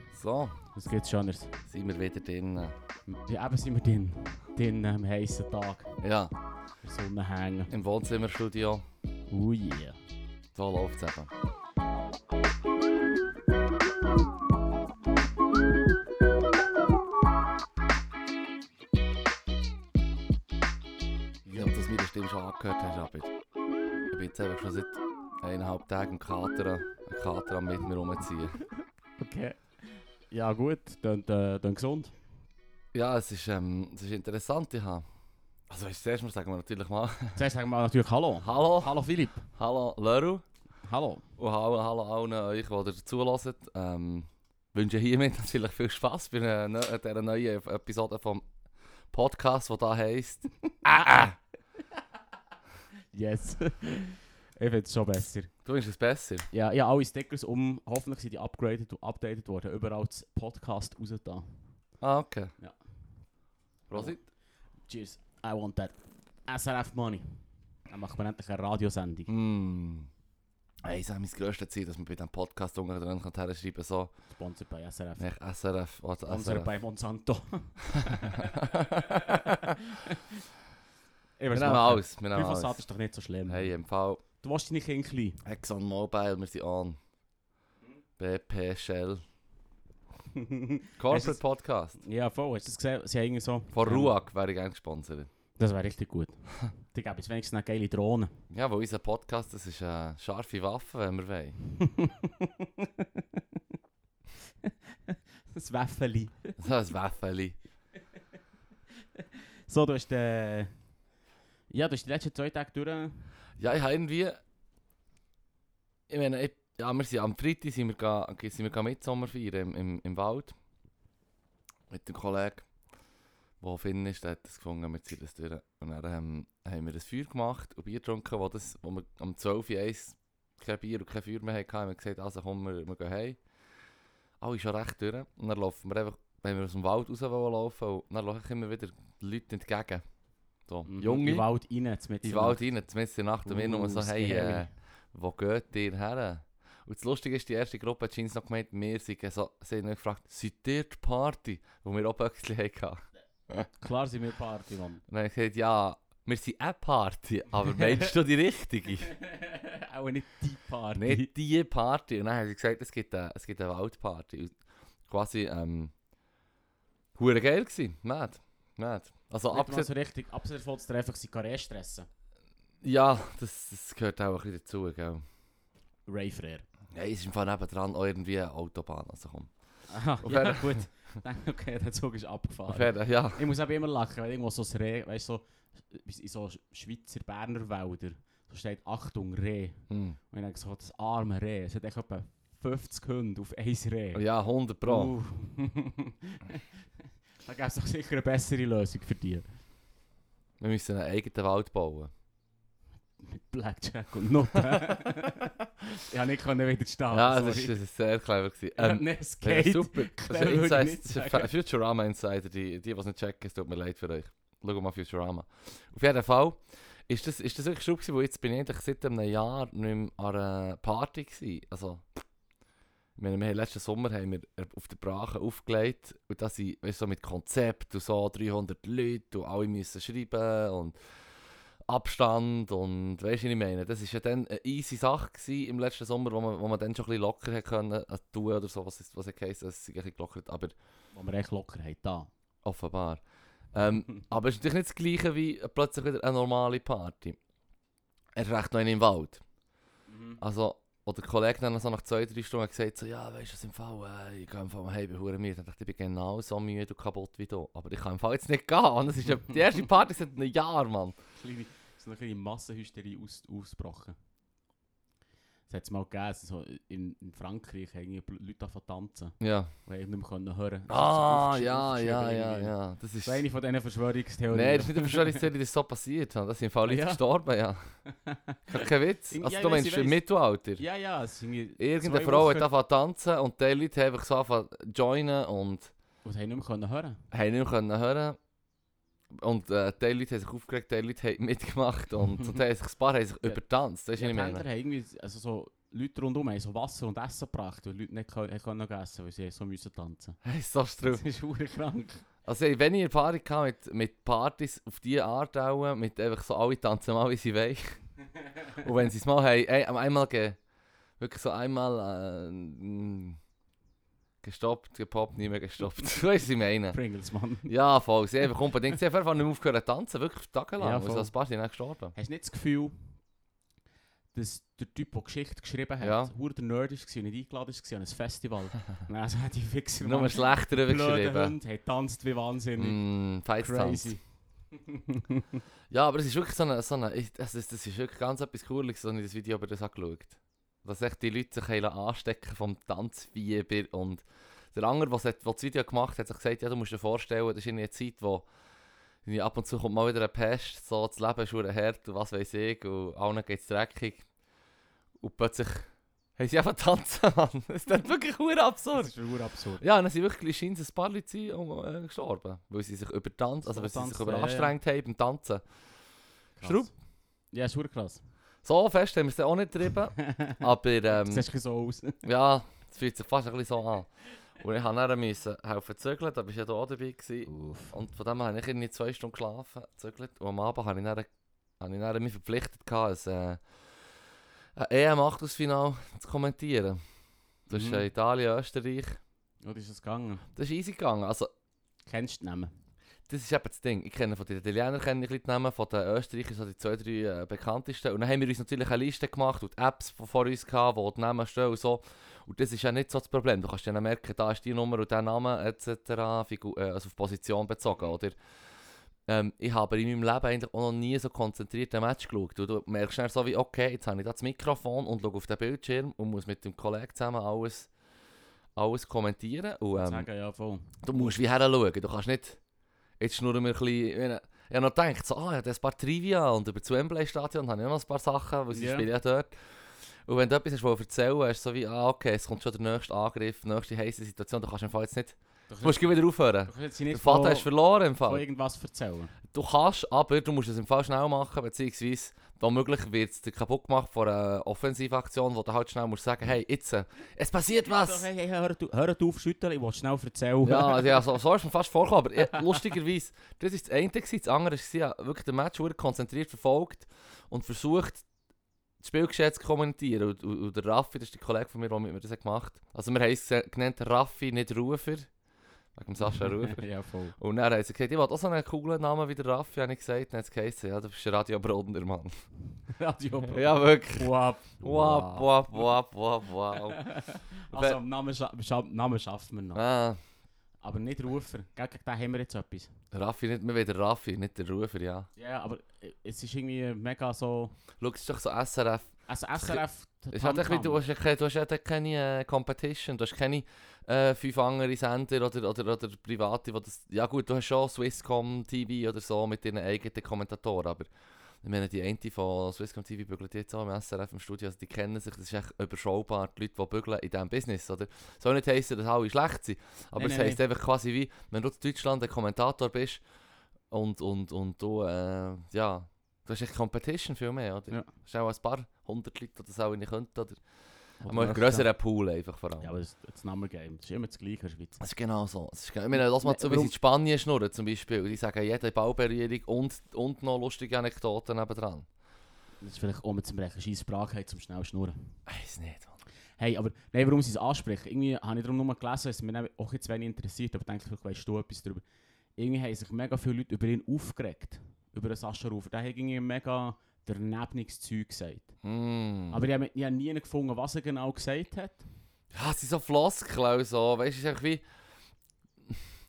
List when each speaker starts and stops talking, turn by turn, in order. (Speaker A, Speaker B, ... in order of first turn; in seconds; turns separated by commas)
Speaker A: 0.1-0.6, Speaker B: 0.7-1.6, Speaker A: 1.7-2.8, Speaker B: 3.1-6.0, Speaker A: 6.0-6.3, Speaker B: 6.8-7.7, Speaker A: 7.7-8.9, Speaker B: 9.3-10.0, Speaker A: 10.5-11.3, Speaker B: 21.4-21.8, Speaker A: 21.6-23.3, Speaker A: 24.1-28.6, Speaker B: 29.2-29.8, Speaker B: 30.3-32.1, Speaker A: 32.9-35.0, Speaker A: 35.7-37.4, Speaker B: 37.4-39.5, Speaker A: 38.4-39.0, Speaker A: 39.5-40.4, Speaker B: 40.8-41.2, Speaker A: 41.4-48.4, Speaker A: 49.1-51.4, Speaker B: 50.7-51.2, Speaker B: 53.1-55.5, Speaker A: 55.6-56.5, Speaker B: 56.5-61.6, Speaker A: 62.0-62.5, Speaker A: 63.9-64.2, Speaker B: 63.9-64.2, Speaker B: 64.9-65.9, Speaker B: 66.5-69.3, Speaker A: 69.3-70.1, Speaker A: 70.8-74.1, Speaker B: 74.3-75.3, Speaker A: 75.2-76.7, Speaker B: 76.3-80.2, Speaker A: 77.9-79.8, Speaker B: 81.4-83.7, Speaker A: 81.5-82.8, Speaker A: 83.5-84.2, Speaker B: 84.4-85.4, Speaker A: 85.4-87.0, Speaker A: 88.2-89.2, Speaker B: 90.3-91.4, Speaker A: 91.0-92.0, Speaker B: 92.0-94.1, Speaker A: 93.7-95.3, Speaker B: 95.6-98.3, Speaker A: 98.5-101.6, Speaker B: 101.8-103.6, Speaker B: 104.6-106.6, Speaker A: 106.6-107.6, Speaker B: 109.2-110.7, Speaker B: 111.7-113.3, Speaker A: 113.6-114.4, Speaker A: 116.1-120.6, Speaker A: 121.9-122.7, Speaker A: 123.6-133.4, Speaker A: 134.4-140.0, Speaker A: 140.7-141.4, Speaker B: 140.8-142.6, Speaker A: 142.2-153.7, Speaker B: 143.4-144.7, Speaker B: 153.8-155.0, Speaker A: 155.1-159.1, Speaker B: 157.7-158.1, Speaker B: 159.2-161.3, Speaker A: 161.0-164.5, Speaker A: 165.1-165.9, Speaker A: 167.2-169.9, Speaker B: 169.5-172.1, Speaker A: 172.8-175.2, Speaker B: 176.1-176.7, Speaker A: 176.9-179.5, Speaker B: 179.9-194.2, Speaker A: 180.2-180.8, Speaker A: 182.7-183.4, Speaker A: 189.9-190.2, Speaker A: 194.1-195.1, Speaker B: 194.8-196.7, Speaker B: 197.4-199.5, Speaker A: 200.6-202.1, Speaker B: 203.2-207.7, Speaker A: 204.7-204.9, Speaker A: 207.1-222.0, Speaker B: 208.8-211.5, Speaker A: 223.2-230.9, Speaker A: 231.9-240.8, Speaker B: 241.1-242.3, Speaker A: 242.6-247.4, Speaker A: 248.3-249.4, Speaker B: 250.1-250.4, Speaker A: 250.4-261.1, Speaker B: 261.4-264.1, Speaker B: 265.7-275.4, Speaker A: 269.4-269.7, Speaker A: 270.9-273.4, Speaker A: 274.5-277.8, Speaker B: 276.8-277.2, Speaker B: 278.1-280.2, Speaker A: 278.7-280.8, Speaker B: 280.8-282.7, Speaker A: 281.8-285.9, Speaker B: 286.2-287.2, Speaker A: 287.3-288.4, Speaker A: 289.3-294.6, Speaker B: 294.1-300.4, Speaker A: 300.4-301.2, Speaker B: 301.1-302.2, Speaker A: 302.4-307.9, Speaker A: 308.8-310.6, Speaker A: 311.2-313.4, Speaker A: 314.4-317.0, Speaker B: 316.9-317.7, Speaker A: 317.6-322.1, Speaker B: 320.8-321.3, Speaker B: 322.1-322.9, Speaker B: 324.3-333.0, Speaker A: 326.0-326.3, Speaker A: 330.0-331.6, Speaker A: 332.8-334.1, Speaker B: 333.6-334.2, Speaker B: 334.7-335.6, Speaker A: 335.9-348.4, Speaker A: 349.2-354.2, Speaker A: 355.2-359.1, Speaker B: 358.9-359.8, Speaker A: 359.8-365.6, Speaker B: 363.6-364.8, Speaker B: 366.6-366.9, Speaker A: 366.6-366.9, Speaker B: 367.5-368.2, Speaker A: 368.6-371.4, Speaker B: 370.1-372.2, Speaker A: 372.2-381.3, Speaker B: 377.5-377.9, Speaker A: 381.8-383.6, Speaker A: 384.8-387.0, Speaker A: 387.7-389.2, Speaker B: 387.7-388.1, Speaker B: 389.6-390.4, Speaker A: 390.6-391.5, Speaker B: 392.1-392.7, Speaker A: 393.3-408.3, Speaker A: 409.3-417.9, Speaker A: 418.8-420.3, Speaker B: 419.9-421.3, Speaker A: 421.0-422.6, Speaker A: 423.2-429.5, Speaker B: 428.7-429.1, Speaker A: 430.2-438.4, Speaker B: 435.7-439.3, Speaker A: 439.5-448.2, Speaker B: 447.8-451.3, Speaker A: 450.6-458.2, Speaker A: 459.0-465.3, Speaker A: 465.9-466.9, Speaker B: 466.2-467.4, Speaker A: 467.4-472.3, Speaker B: 472.9-475.8, Speaker A: 473.5-477.0, Speaker B: 476.7-479.8, Speaker A: 477.7-478.0, Speaker A: 479.8-480.2, Speaker B: 480.8-482.9, Speaker A: 483.1-485.3, Speaker B: 485.4-487.8, Speaker A: 488.0-501.1, Speaker B: 489.3-491.0, Speaker A: 501.6-513.2, Speaker B: 510.1-510.6, Speaker A: 513.9-520.6, Speaker B: 521.2-521.9, Speaker A: 521.2-522.9, Speaker B: 522.8-525.0, Speaker A: 525.0-532.0, Speaker B: 526.1-526.9, Speaker B: 532.8-535.3, Speaker A: 535.5-536.2, Speaker B: 536.6-542.0, Speaker B: 542.6-548.7, Speaker A: 548.8-549.6, Speaker B: 549.5-552.0, Speaker A: 552.5-554.8